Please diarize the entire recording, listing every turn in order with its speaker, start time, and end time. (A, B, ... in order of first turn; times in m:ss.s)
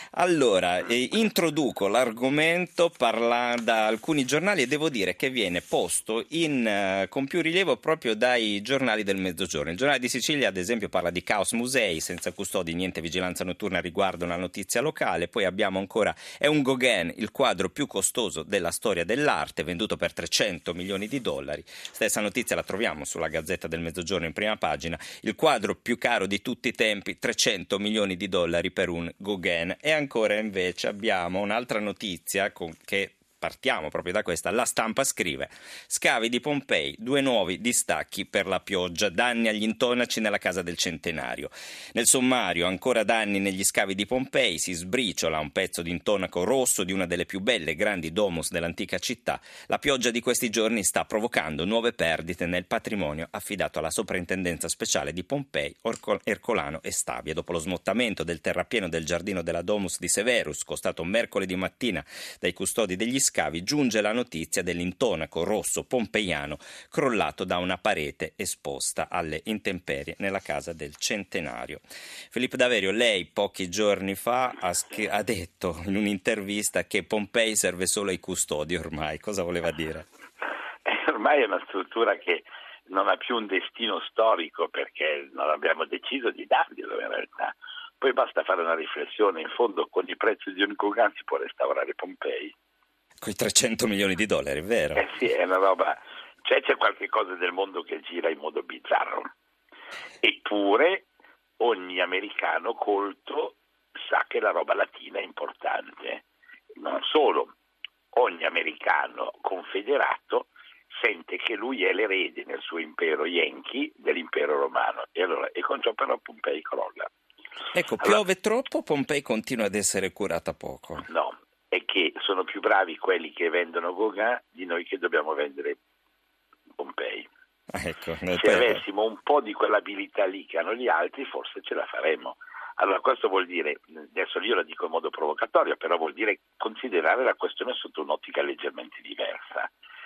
0:00.1-1:20.0 A
1:20.8-1:32.5 B
1:33.2-1:35.1 A
1:35.0-1:39.3 B
1:40.2-1:41.1 B
1:41.6-1:46.2 B
1:46.8-1:47.5 B
1:48.1-1:57.1 B
1:57.7-2:01.1 A
2:01.1-2:05.8 B
2:06.8-2:07.3 B
2:07.7-2:08.8 A
2:08.3-2:19.7 B